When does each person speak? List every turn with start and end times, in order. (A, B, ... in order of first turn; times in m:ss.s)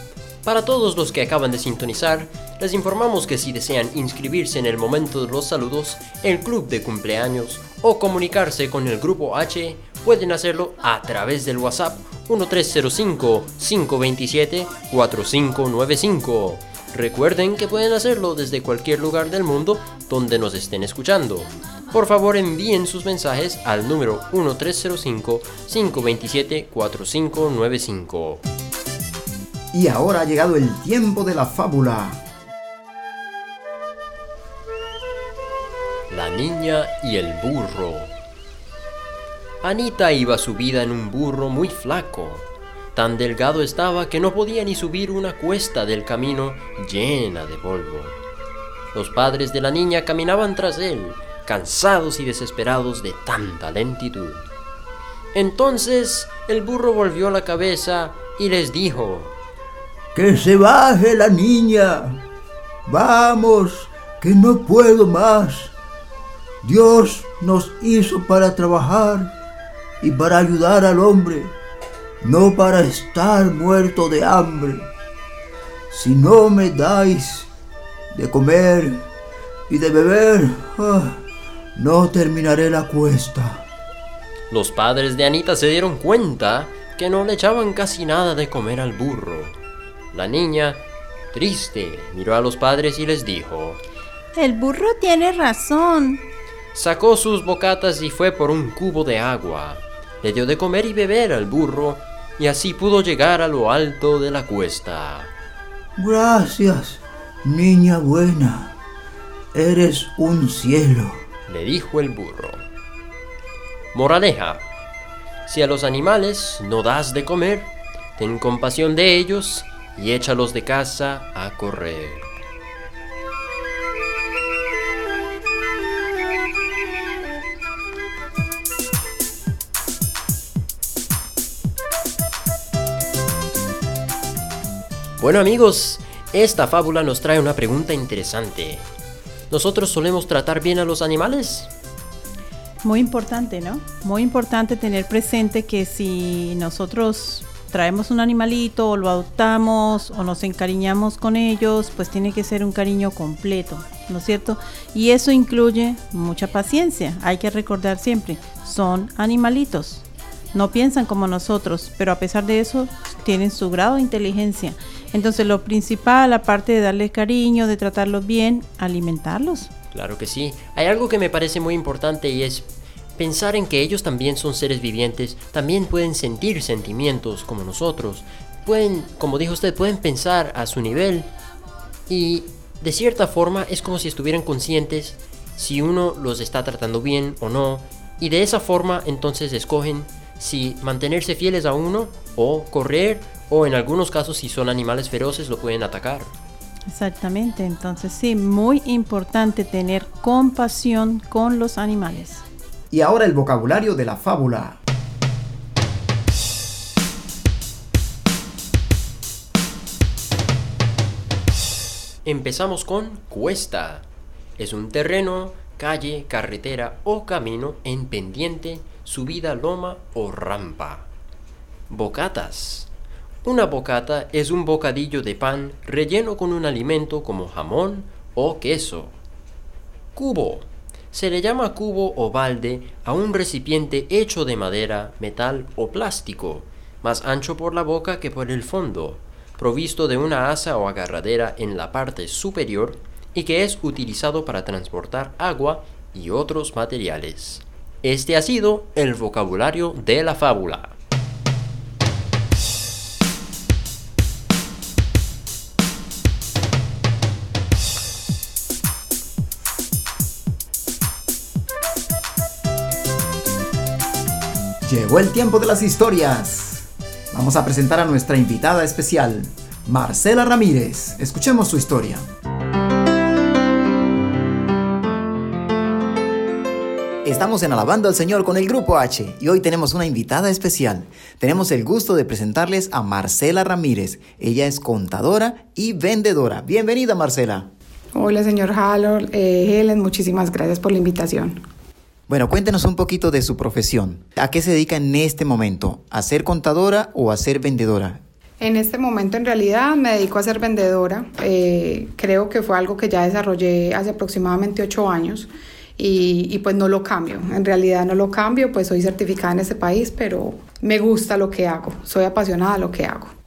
0:00.4-0:28.4 A
0:29.7-0:32.2 B
0:36.1-0:38.1 A
0:39.6-0:48.2 A
0:48.9-0:54.4 A
0:55.3-0:59.3 A
1:00.1-1:02.2 C
1:02.9-1:05.7 C
1:06.6-1:09.3 C
1:10.0-1:11.5 C
1:12.2-1:14.9 C
1:15.9-1:17.5 C
1:18.1-1:19.0 C
1:19.7-1:21.2 C
1:21.8-1:23.6 C
1:24.5-1:29.6 A
1:30.1-1:30.8 A
1:31.3-1:33.8 A
1:34.4-1:36.2 D
1:36.7-1:45.3 A
1:46.0-1:48.7 C
1:49.5-1:51.2 C
1:51.5-1:52.6 A
1:53.9-1:54.6 A
1:55.5-2:02.2 A
2:15.2-2:18.8 A
2:19.5-2:21.7 A
2:22.8-2:49.7 D
2:49.9-2:52.6 A
2:53.2-3:01.3 A
3:02.1-3:16.3 A
3:16.9-3:22.4 D
3:22.9-3:24.8 B
3:32.2-3:34.0 A
3:34.6-3:41.1 A
3:41.9-3:42.9 A
3:43.4-3:49.2 A
3:50.2-4:10.9 A
4:24.8-4:32.3 B
4:37.2-4:47.7 B
4:48.2-4:51.6 E
4:52.3-4:58.2 B
4:58.6-5:13.3 E